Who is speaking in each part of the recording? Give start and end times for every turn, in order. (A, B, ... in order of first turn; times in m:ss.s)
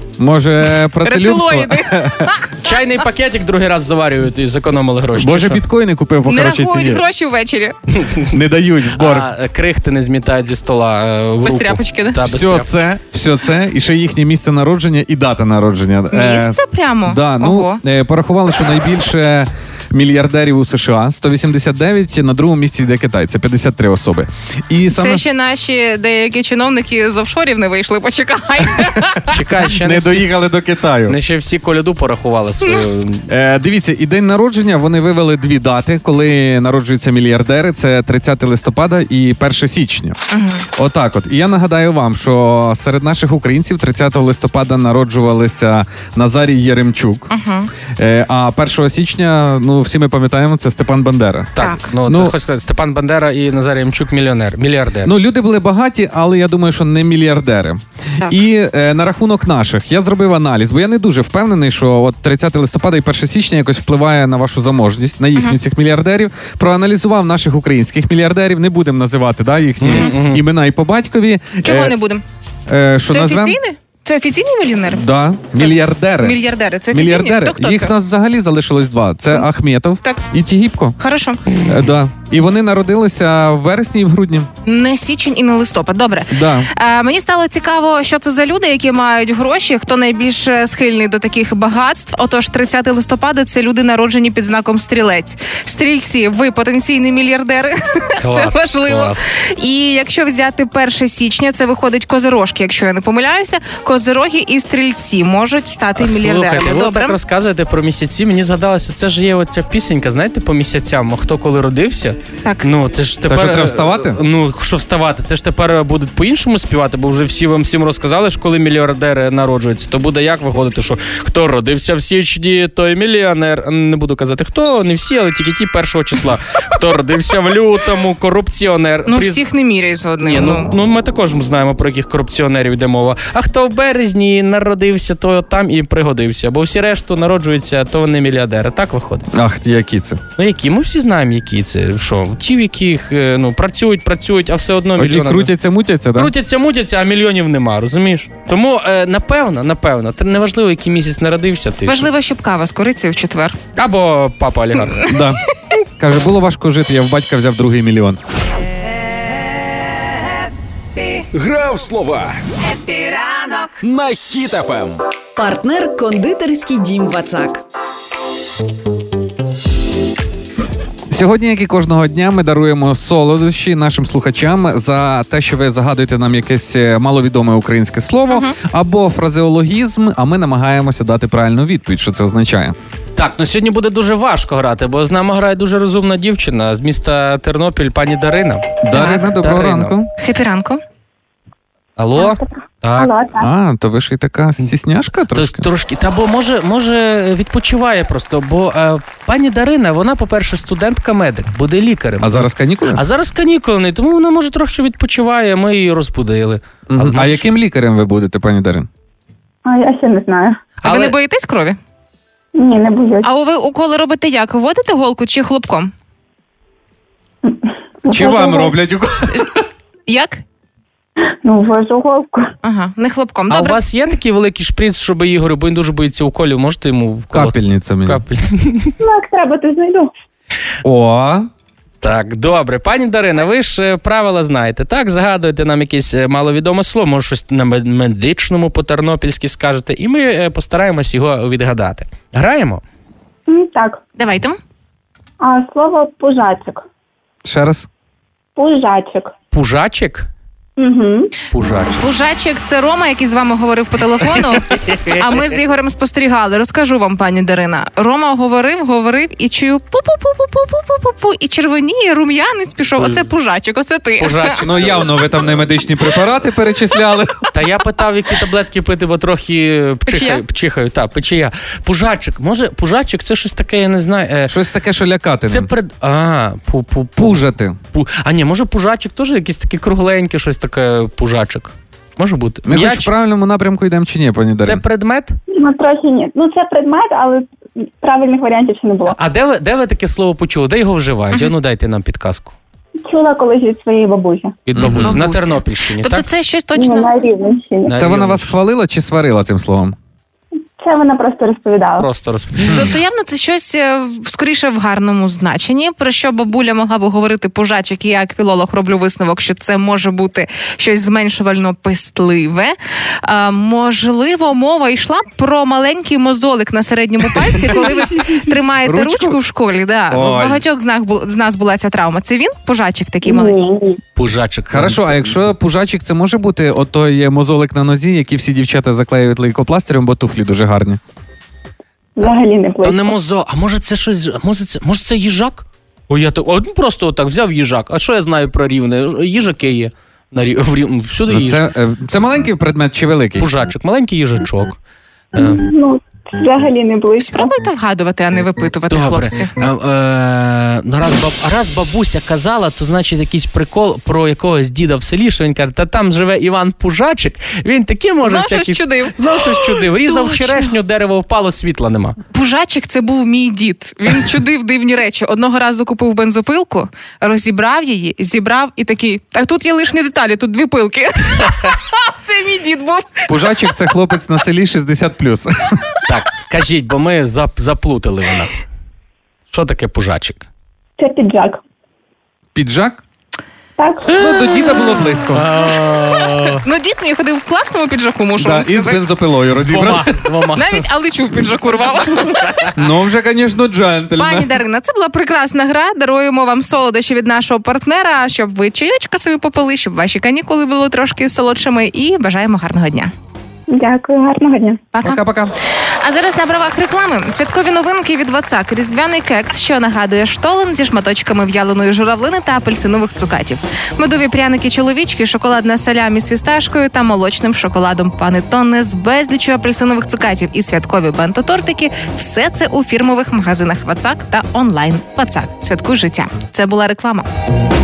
0:00.2-0:02.3 A
0:01.0-0:02.7 B
0:02.6-0:05.6 C
0:05.2-0:07.0 A
0:06.2-0:07.7 B
0:08.0-0:08.3 C
0:08.3-0:09.3 A
0:09.0-0:12.7 C
0:11.4-0:12.2 B
0:12.2-0:25.2 A
0:16.1-0:17.8 B
0:24.9-0:29.4 B
0:29.2-0:30.3 C
0:29.6-0:31.2 A
0:31.1-0:33.3 C
0:33.3-0:40.2 A
0:40.3-0:40.6 B
0:40.7-0:47.3 A
0:47.3-0:47.7 B
0:48.0-0:52.3 A
0:51.6-0:55.1 C
0:51.6-0:51.9 B
0:55.0-1:12.0 A
1:09.8-1:10.4 C
1:09.9-1:10.1 B
1:11.6-1:12.2 B
1:12.7-1:13.6 A
1:13.1-1:17.9 B
1:14.9-1:16.4 A
1:16.9-1:21.0 A
1:21.0-1:21.4 B
1:21.6-1:24.5 A
1:24.6-1:47.2 B
1:26.3-1:26.7 A
1:38.2-1:39.2 C
1:46.0-2:09.4 C
1:53.2-1:54.2 A
2:09.1-2:10.7 B
2:10.2-2:19.3 C
2:19.3-2:20.2 A
2:20.4-2:25.5 C
2:25.0-2:26.3 A
2:26.1-2:32.1 C
2:31.8-2:33.6 B
2:33.8-2:35.1 C
2:35.1-2:35.4 A
2:36.0-2:38.2 A
2:41.0-2:41.2 D
2:41.3-2:42.4 E
2:42.6-2:43.8 D
2:43.8-2:45.0 E
2:45.4-2:47.6 D
2:51.1-3:02.8 A
2:58.3-2:58.6 B
3:03.2-3:09.9 C
3:08.8-3:10.1 A
3:08.9-3:09.3 B
3:10.2-3:10.8 B
3:12.0-3:13.1 C
3:12.2-3:13.5 F
3:13.4-3:15.7 A
3:15.3-3:27.5 C
3:22.2-3:23.0 A
3:26.9-3:28.9 A
3:29.6-3:30.6 F
3:30.8-3:31.8 B
3:30.8-3:31.2 C
3:32.5-3:33.2 F
3:33.2-3:35.9 B
3:37.4-3:38.7 F
3:38.1-3:39.6 A
3:40.1-3:40.4 B
3:41.4-3:42.5 F
3:42.6-3:43.8 B
3:43.5-3:48.9 C
3:47.3-3:48.2 A
3:49.0-3:50.1 F
3:50.8-3:51.5 A
3:52.0-4:02.8 C
4:03.5-4:04.0 F
4:04.2-4:04.6 B
4:05.4-4:06.8 F
4:07.4-4:07.9 A
4:08.6-4:09.3 F
4:09.5-4:10.3 C
4:10.8-4:11.3 F
4:11.5-4:12.0 C
4:12.0-4:24.6 B
4:14.7-4:15.1 C
4:24.2-4:25.5 C
4:24.6-4:27.5 A
4:27.5-4:34.6 C
4:30.0-4:30.4 B
4:34.5-4:35.7 A
4:35.5-4:43.1 C
4:37.2-4:37.8 A
4:42.6-4:44.8 A
4:44.6-4:45.4 C
4:45.5-4:49.2 F
4:49.1-4:52.5 C
4:53.0-4:54.6 F
4:54.7-4:56.2 C
4:54.8-4:55.2 A
4:54.9-4:57.1 B
4:56.7-4:58.0 F
4:57.8-4:58.5 C
4:58.0-5:00.0 A
5:00.8-5:02.1 F
5:02.0-5:02.9 C
5:02.7-5:02.9 A
5:02.7-5:23.6 B
5:18.8-5:19.4 A
5:20.1-5:20.6 A
5:23.2-5:24.0 F
5:24.2-5:25.4 C
5:24.7-5:31.0 A
5:32.2-5:33.1 F
5:32.8-5:41.6 C
5:41.3-5:43.5 A
5:43.4-5:44.8 C
5:45.3-5:45.6 C
5:45.3-5:47.5 F
5:47.2-5:49.5 B
5:48.9-6:02.2 C
5:58.2-6:00.7 B
6:02.3-6:13.3 B
6:13.3-6:15.8 A
6:16.0-6:18.6 C
6:19.5-6:20.5 C
6:21.0-6:21.6 F
6:22.5-6:23.0 A
6:23.8-6:24.1 F
6:24.1-6:25.4 A
6:24.5-6:26.6 C
6:26.6-6:29.0 B
6:28.4-6:30.2 A
6:29.5-6:30.8 C
6:30.6-6:32.7 B
6:32.8-6:34.5 A
6:34.2-6:43.1 B
6:43.7-6:44.8 F
6:44.9-6:45.2 B
6:45.0-6:45.5 A
6:46.0-7:07.3 B